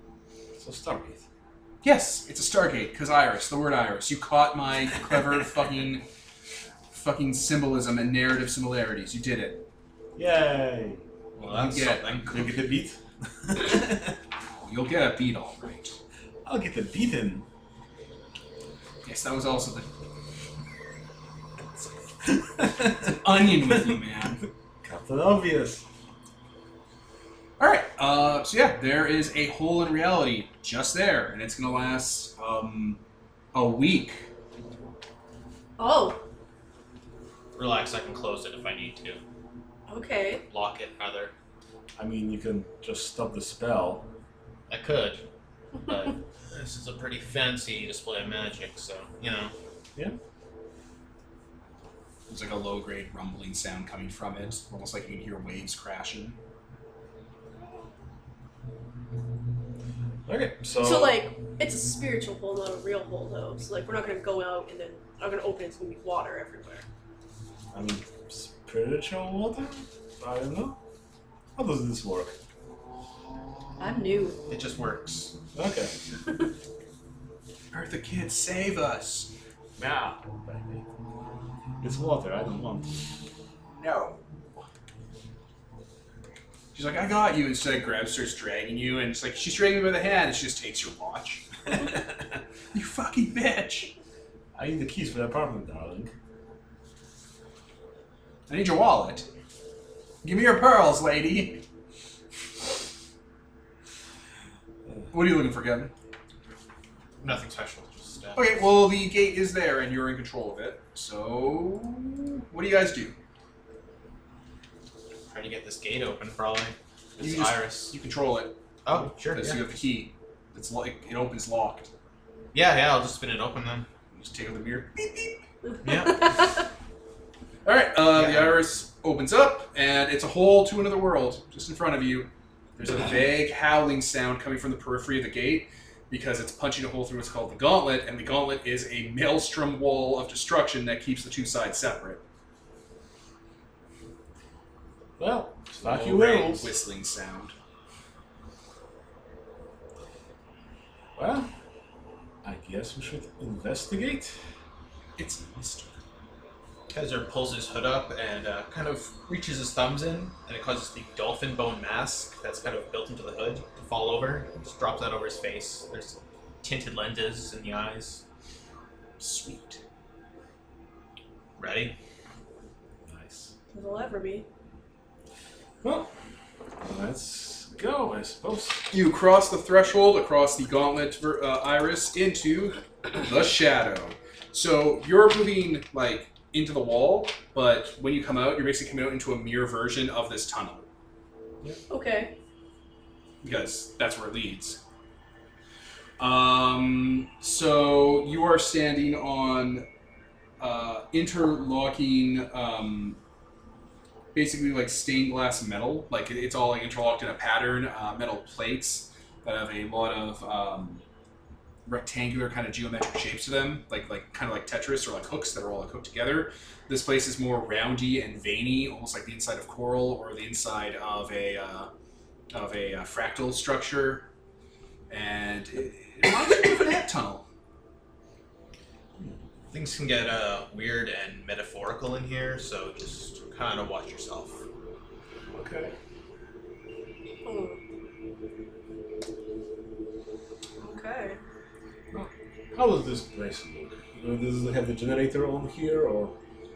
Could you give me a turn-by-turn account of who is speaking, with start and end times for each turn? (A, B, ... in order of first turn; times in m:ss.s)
0:00.6-0:01.2 A
0:01.8-0:06.0 B
0:06.9-0:09.6 B
0:10.2-0:11.0 A
0:11.4-0:12.5 C
0:11.5-0:12.3 B
0:12.3-0:13.0 A
0:14.6-0:16.0 B
0:16.4-0:17.5 A
0:19.0-0:19.9 B
0:22.6-0:23.0 A
0:22.6-0:24.4 B
0:24.8-0:25.8 A
0:27.6-0:33.0 B
0:33.5-0:34.3 B
0:35.8-0:36.2 D
0:37.6-0:39.2 C
0:39.9-0:40.4 D
0:40.5-0:41.3 C
0:42.0-0:44.1 A
0:44.7-0:45.2 C
0:45.9-0:49.5 C
0:52.3-0:56.4 B
1:00.3-1:01.2 A
1:00.8-1:06.8 D
1:07.7-1:10.8 A
1:11.6-1:12.4 A
1:13.8-1:14.4 D
1:14.5-1:15.4 C
1:15.5-1:15.9 A
1:17.7-1:19.3 B
1:19.8-1:20.8 A
1:21.8-1:23.0 A
1:23.7-1:24.2 B
1:26.7-1:31.9 B
1:32.7-1:33.9 B
1:34.6-1:36.1 A
1:38.5-1:39.3 B
1:40.2-1:41.6 B
1:45.1-1:45.9 B
1:47.2-1:48.6 C
1:48.4-1:53.2 B
1:55.3-1:58.0 C
1:57.2-1:58.6 B
1:58.8-1:59.6 C
1:59.3-2:01.9 B
2:02.5-2:03.9 C
2:04.1-2:05.4 B
2:05.8-2:06.4 C
2:07.6-2:22.2 B
2:08.1-2:08.6 C
2:25.2-2:26.8 A
2:25.8-2:27.6 B
2:31.2-2:31.5 A
2:32.4-2:34.4 A
2:35.2-2:36.0 B
2:36.9-2:48.2 C
2:49.2-2:49.8 B
2:51.6-2:52.0 C
2:53.1-2:53.5 A
2:53.7-2:54.5 D
2:55.8-2:56.1 A
2:56.8-2:58.9 A
2:58.9-3:10.9 B
3:11.9-3:12.4 D
3:13.4-3:14.8 B
3:16.2-3:19.9 B
3:20.6-3:23.2 B
3:24.3-3:31.0 B
3:31.9-3:41.9 B
3:42.5-3:44.3 B
3:45.1-3:47.5 B
3:49.7-3:54.6 C
3:55.5-3:55.9 A
3:57.4-3:57.8 D
4:00.8-4:01.4 D
4:02.1-4:06.4 A